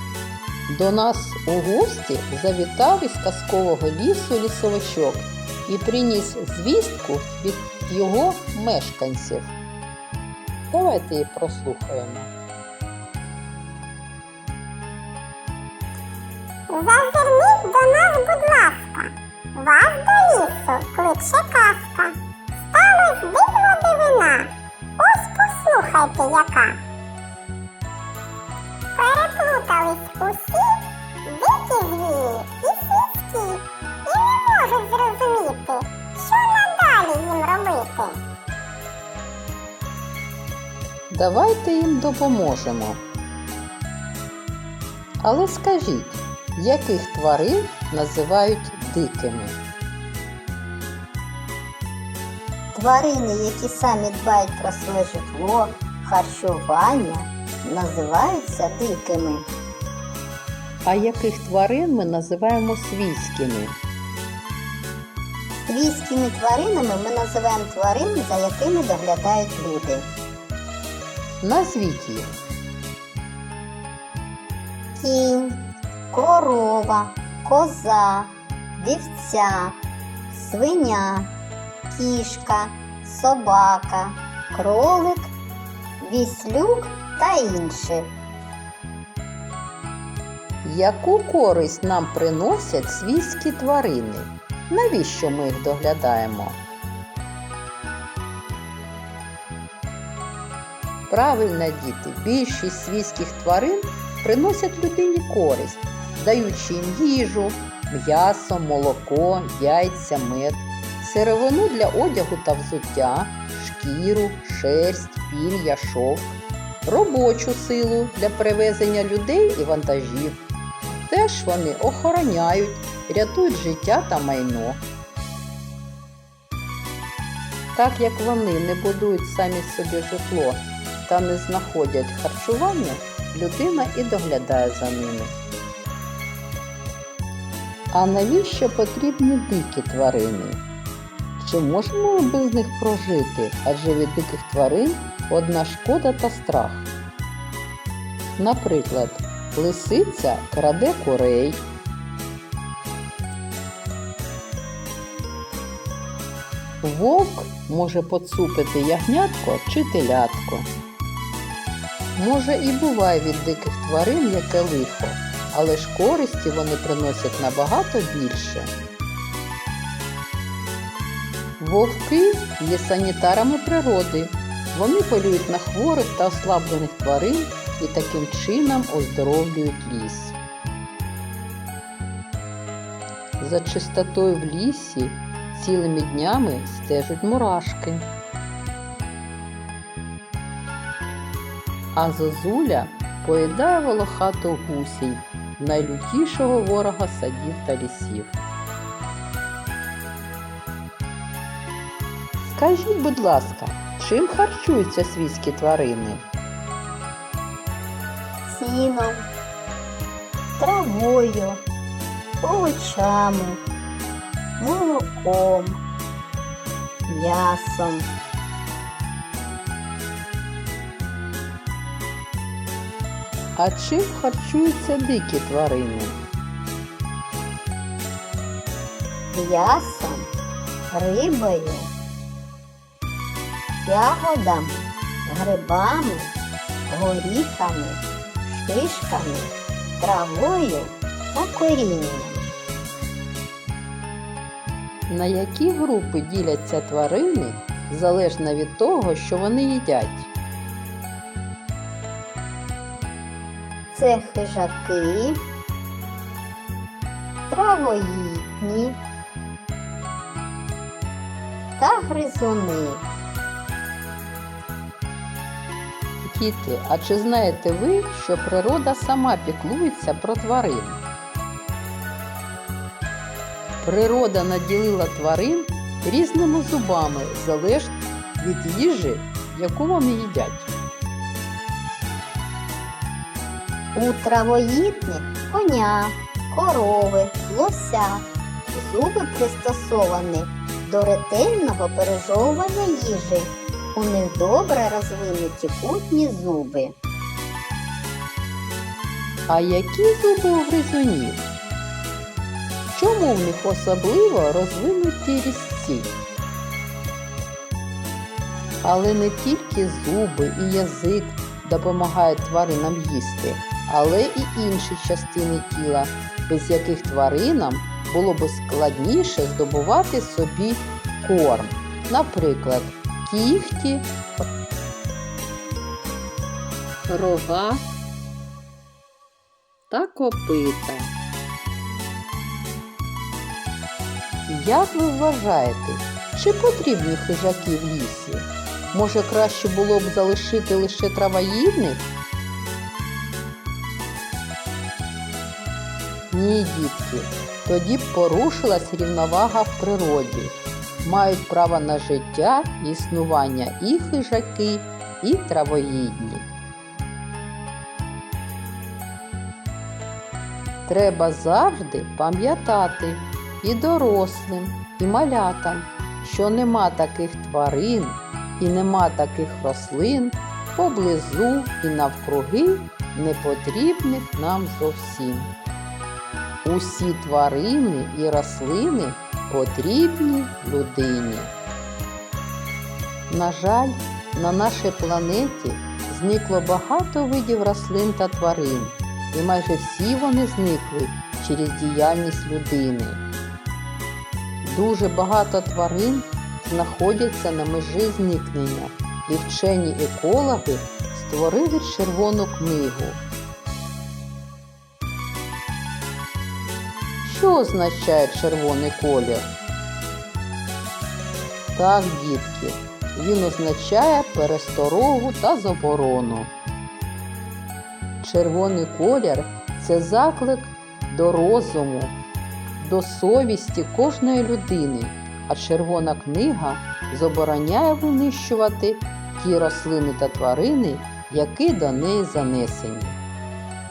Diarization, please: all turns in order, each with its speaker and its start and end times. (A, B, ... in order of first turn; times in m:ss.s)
0:00.7-0:09.6 A
0:10.7-0:12.3 A
0:16.7-0:22.2 B
0:22.7-0:26.8 B
0:28.9-0:38.2 B
0:41.1-0:43.0 A
0:45.2-0:49.6 A
0:52.7-0:59.5 C
1:00.8-1:03.8 A
1:05.6-1:10.1 C
1:11.4-1:12.4 A
1:15.0-1:19.8 C
1:20.3-1:21.3 C
1:21.9-1:25.3 C
1:26.0-1:28.1 C
1:30.6-1:36.6 A
1:41.1-2:04.8 A
2:07.7-2:15.4 A
2:17.9-2:20.6 A
2:21.4-2:26.9 A
2:28.4-2:31.7 A
2:36.8-2:40.7 A
2:42.2-2:48.7 A
2:51.6-3:00.4 A
3:03.4-3:08.1 A
3:11.9-3:18.4 A
3:22.5-3:26.2 A
3:28.5-3:29.3 C
3:30.6-3:31.6 C
3:32.4-3:33.6 C
3:34.6-3:35.8 C
3:37.1-3:38.1 C
3:43.6-3:46.3 A
3:49.3-3:50.3 C
3:50.9-3:51.9 C
3:53.8-3:56.4 C
3:56.9-4:02.4 C
4:05.1-4:10.3 A
4:13.9-4:15.4 C
4:17.5-4:19.0 C
4:21.8-4:23.1 C
4:26.2-4:31.0 A
4:33.8-4:40.7 A
4:43.9-4:57.0 C
4:59.5-5:01.5 A
5:02.9-5:06.2 A
5:08.8-5:24.1 A
5:27.1-5:27.9 A
5:29.9-5:31.1 A
5:34.5-5:42.1 A
5:46.3-5:56.5 A
6:00.9-6:15.5 A
6:16.6-6:21.5 A
6:23.3-6:33.2 A
6:34.6-6:43.2 A
6:47.2-6:49.5 A
6:51.7-6:56.5 A
6:58.2-7:02.2 A
7:02.8-7:13.2 A